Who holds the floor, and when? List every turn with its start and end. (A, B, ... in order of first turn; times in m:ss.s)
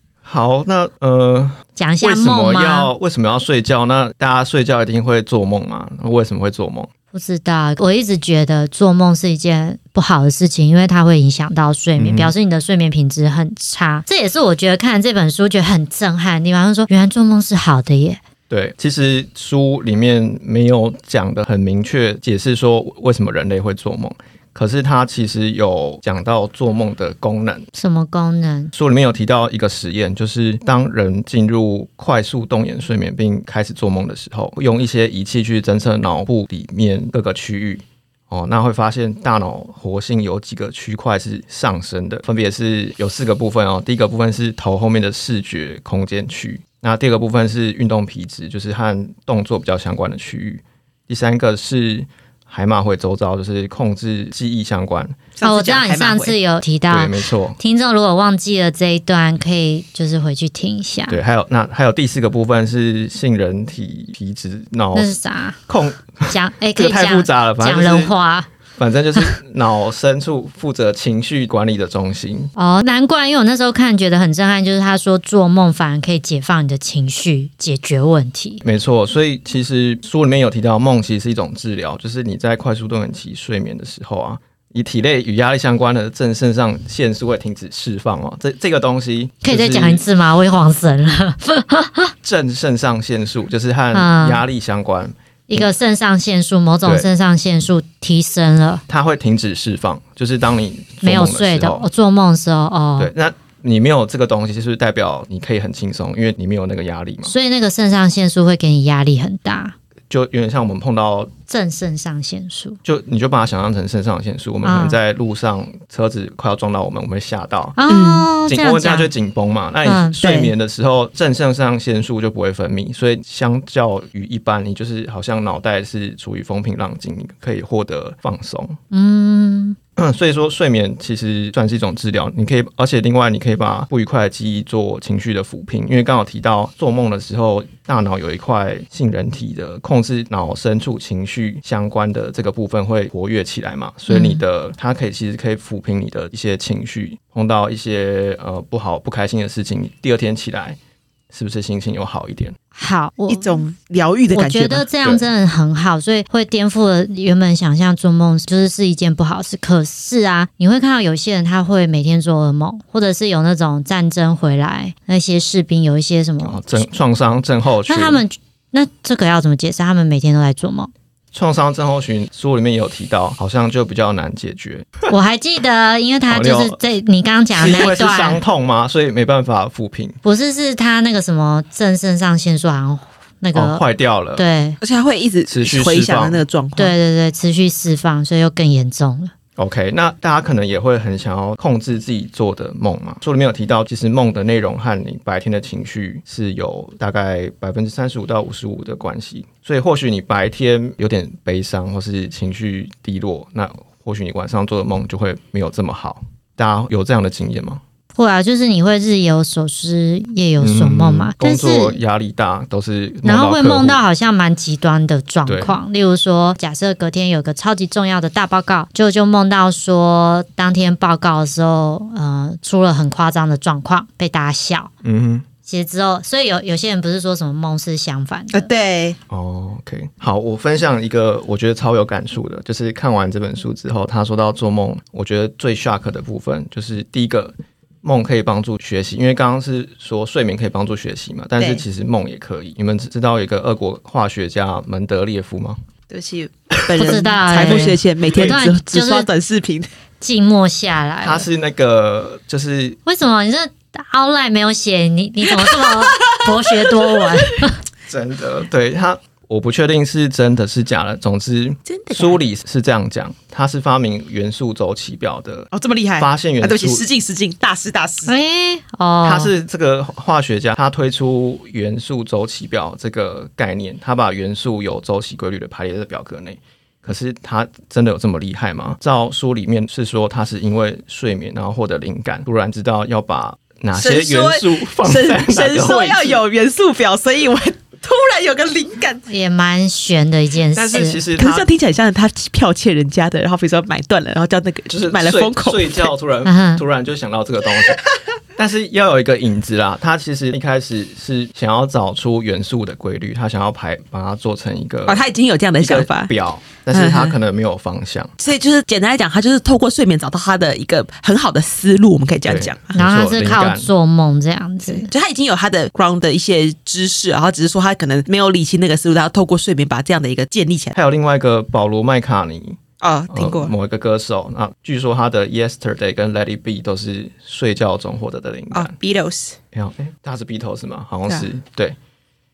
0:00.2-0:06.9 A
0:01.8-0:02.9 B
0:07.1-0:18.2 B
0:12.0-0:12.3 A
0:18.5-0:27.6 A
0:27.7-0:28.7 B
0:28.7-0:55.2 A
0:55.4-0:56.3 C
0:55.4-1:01.2 B
0:56.9-0:57.6 A
1:01.1-1:05.1 A
1:04.9-1:05.6 B
1:05.7-1:08.1 A
1:06.3-1:08.5 B
1:08.8-1:12.5 A
1:12.6-1:18.6 B
1:18.6-1:30.0 A
1:29.4-1:32.1 B
1:32.2-1:35.7 A
1:33.9-1:34.4 B
1:35.5-1:38.8 B
1:38.9-1:41.9 A
1:41.0-1:43.1 B
1:43.0-1:47.3 A
1:47.2-1:49.7 B
1:50.1-1:51.3 A
1:51.5-1:52.8 B
1:52.8-1:57.8 A
1:54.6-1:55.0 B
1:57.8-1:59.1 B
1:57.9-1:58.2 C
1:58.5-2:08.8 A
1:59.8-2:00.2 B
2:00.2-2:00.5 C
2:08.9-2:09.8 B
2:10.0-2:30.8 A
2:24.1-2:24.4 B
2:31.3-2:32.6 A
2:32.7-2:33.6 B
2:33.3-2:34.9 C
2:34.3-2:46.8 B
2:46.4-2:48.2 A
2:47.9-2:50.9 B
2:51.3-2:54.9 A
2:55.1-2:58.4 B
2:56.3-2:56.8 A
2:57.6-3:00.2 A
3:00.2-3:03.8 B
3:03.5-3:04.4 A
3:04.4-3:04.8 B
3:04.8-3:06.9 C
3:05.5-3:06.4 A
3:06.8-3:09.3 B
3:09.6-3:27.8 A
3:28.1-3:32.0 B
3:30.6-3:34.0 A
3:33.2-3:44.9 B
3:35.4-3:35.8 A
3:45.0-3:45.4 A
3:45.6-3:48.7 B
3:48.5-3:49.2 C
3:49.3-4:05.8 A
4:01.6-4:01.8 C
4:06.1-4:09.9 C
4:07.0-4:09.3 B
4:10.2-4:11.4 B
4:11.2-4:13.0 A
4:13.0-4:17.8 B
4:15.6-4:17.3 C
4:18.1-4:25.7 A
4:21.8-4:22.4 C
4:25.7-4:28.3 C
4:26.2-4:27.0 A
4:28.2-4:29.5 B
4:29.2-4:46.4 A
4:43.9-4:49.2 C
4:49.3-4:51.2 B
4:50.7-4:51.7 A
4:51.4-4:56.1 C
4:54.9-4:58.0 A
4:56.4-4:56.8 B
4:58.6-5:05.2 A
5:05.0-5:06.3 C
5:05.8-5:08.3 A
5:06.9-5:07.4 C
5:08.4-5:12.9 C
5:12.4-5:13.9 A
5:12.9-5:15.1 B
5:14.9-5:20.9 C
5:20.9-5:28.9 A
5:23.0-5:23.7 C
5:28.7-5:29.6 C
5:29.7-5:32.0 A